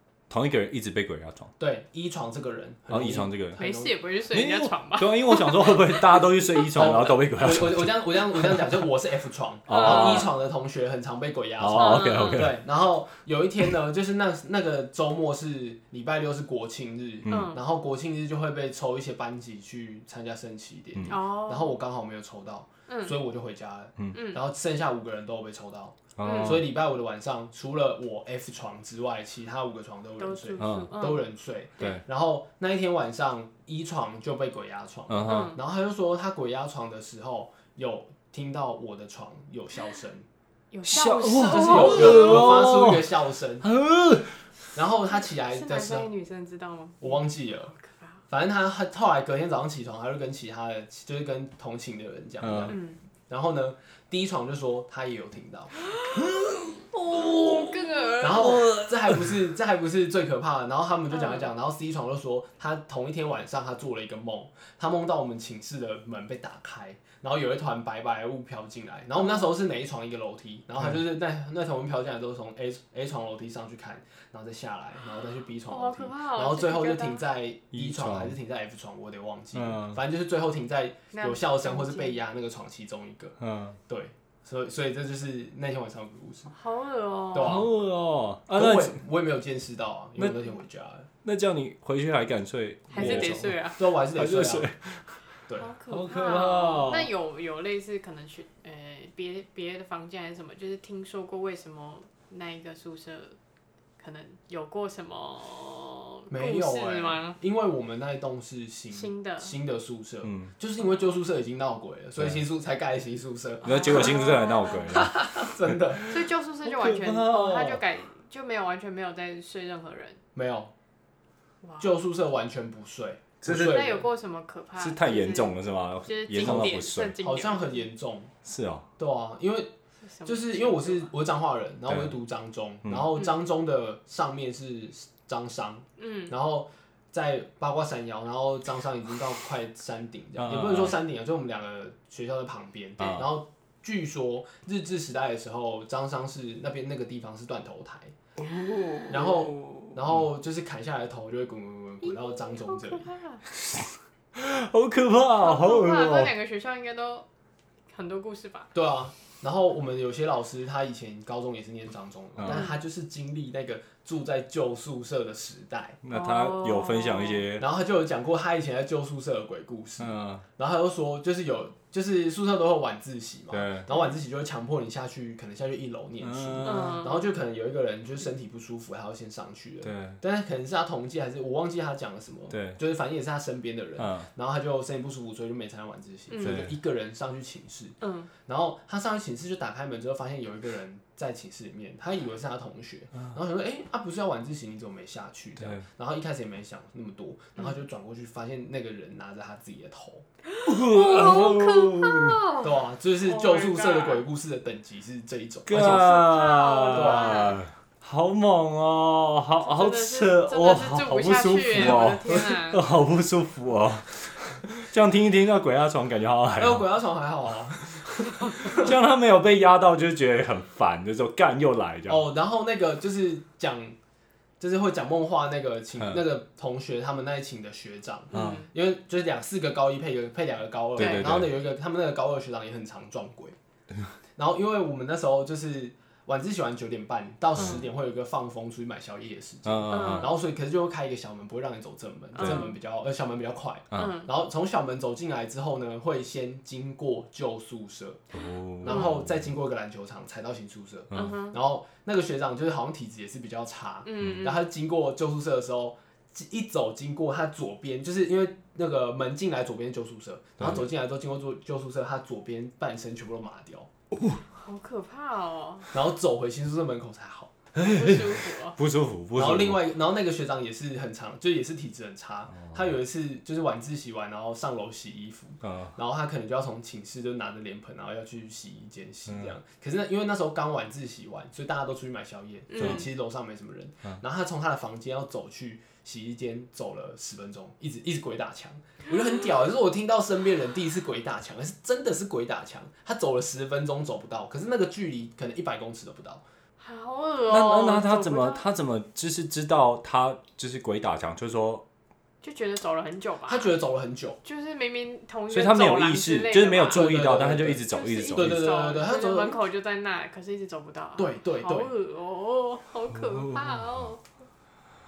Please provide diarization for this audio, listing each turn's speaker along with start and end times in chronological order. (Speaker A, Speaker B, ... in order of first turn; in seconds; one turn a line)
Speaker A: 0.3-1.5
Speaker B: 1.6-4.0
Speaker A: 2.9-3.6
Speaker C: 3.6-6.3
Speaker A: 4.3-8.8
Speaker B: 6.8-40.3
Speaker A: 9.7-10.3
Speaker C: 9.7-10.3
Speaker A: 11.6-12.6
Speaker C: 11.8-12.5
Speaker A: 17.3-17.6
Speaker C: 17.3-17.6
Speaker C: 21.1-21.8
Speaker C: 22.9-23.1
Speaker C: 24.1-24.4
Speaker A: 26.2-26.7
Speaker C: 26.2-26.6
Speaker C: 30.2-31.3
Speaker A: 30.6-30.9
Speaker A: 35.1-35.6
Speaker C: 35.3-35.6
Speaker C: 40.7-42.8
Speaker A: 40.9-43.1
Speaker B: 41.3-43.6
Speaker A: 43.6-44.4
Speaker B: 44.8-46.1
Speaker C: 45.1-47.2
Speaker B: 47.0-47.8
Speaker C: 47.8-48.2
Speaker B: 48.3-52.8
Speaker A: 52.4-52.8
Speaker C: 52.7-53.0
Speaker B: 53.3-55.8
Speaker A: 56.1-59.3
Speaker C: 57.0-58.6
Speaker B: 58.2-83.4
Speaker C: 61.1-61.5
Speaker C: 69.2-69.5
Speaker C: 75.7-77.2
Speaker A: 77.7-78.3
Speaker A: 79.5-80.0
Speaker C: 81.1-82.2
Speaker A: 83.4-83.8
Speaker B: 83.9-86.5
Speaker C: 86.5-87.6
Speaker B: 87.3-87.7
Speaker A: 87.4-89.0
Speaker B: 88.5-91.1
Speaker A: 90.2-90.4
Speaker A: 91.2-95.1
Speaker C: 92.9-93.8
Speaker B: 92.9-94.7
Speaker C: 95.6-103.4
Speaker A: 95.9-97.1
Speaker C: 104.0-107.4
Speaker B: 106.3-114.2
Speaker C: 108.9-109.5
Speaker A: 110.2-110.5
Speaker C: 113.6-115.1
Speaker A: 113.6-116.1
Speaker B: 114.9-116.2
Speaker C: 116.1-120.2
Speaker A: 116.6-117.8
Speaker B: 120.3-120.7
Speaker C: 121.6-121.9
Speaker B: 121.8-124.1
Speaker A: 123.4-124.0
Speaker C: 123.5-127.9
Speaker A: 124.8-127.2
Speaker B: 126.4-128.3
Speaker A: 128.4-128.9
Speaker B: 129.0-129.7
Speaker C: 130.1-131.1
Speaker B: 130.2-148.1
Speaker A: 131.9-132.2
Speaker C: 136.0-136.3
Speaker A: 140.4-141.0
Speaker A: 143.0-143.3
Speaker A: 148.4-149.9
Speaker B: 149.1-153.1
Speaker C: 152.0-153.4
Speaker A: 154.3-156.3
Speaker C: 155.4-157.3
Speaker C: 157.9-158.7
Speaker B: 158.7-166.0
Speaker C: 162.5-162.8
Speaker A: 166.0-167.6
Speaker C: 166.1-167.4
Speaker B: 167.6-200.2
Speaker A: 170.0-170.4
Speaker A: 173.5-173.9
Speaker A: 176.2-177.1
Speaker C: 176.6-177.3
Speaker A: 179.8-180.2
Speaker A: 182.5-182.8
Speaker A: 184.0-184.3
Speaker C: 186.3-186.7
Speaker A: 186.4-186.7
Speaker C: 188.0-188.3
Speaker A: 195.6-195.9
Speaker C: 200.5-204.2
Speaker A: 200.6-202.4
Speaker B: 202.6-206.2
Speaker A: 205.7-216.9
Speaker C: 205.8-207.6
Speaker B: 206.9-207.5
Speaker C: 209.6-212.8
Speaker B: 216.6-218.9
Speaker A: 218.5-222.2
Speaker B: 222.1-224.0
Speaker B: 224.6-233.6
Speaker C: 228.3-228.7
Speaker A: 228.3-228.6
Speaker C: 231.0-231.4
Speaker A: 231.0-231.5
Speaker B: 234.4-248.2
Speaker C: 237.6-237.9
Speaker A: 239.7-240.3
Speaker C: 239.9-240.3
Speaker C: 242.4-242.8
Speaker C: 243.9-244.3
Speaker A: 248.3-249.2
Speaker B: 248.8-263.9
Speaker C: 248.9-249.1
Speaker C: 251.1-251.6
Speaker C: 254.1-254.6
Speaker A: 254.2-254.5
Speaker C: 264.6-265.9
Speaker B: 265.9-267.5
Speaker A: 267.7-269.8
Speaker C: 267.8-268.8
Speaker B: 269.4-296.4
Speaker A: 272.5-272.9
Speaker A: 275.6-275.9
Speaker A: 279.3-279.5
Speaker C: 282.7-283.1
Speaker C: 296.8-298.6
Speaker A: 297.5-301.8
Speaker C: 302.4-303.7
Speaker B: 303.5-304.4
Speaker C: 304.4-307.3
Speaker A: 305.5-308.6
Speaker B: 306.8-309.6
Speaker C: 307.9-314.2
Speaker B: 311.2-311.9
Speaker A: 313.1-314.0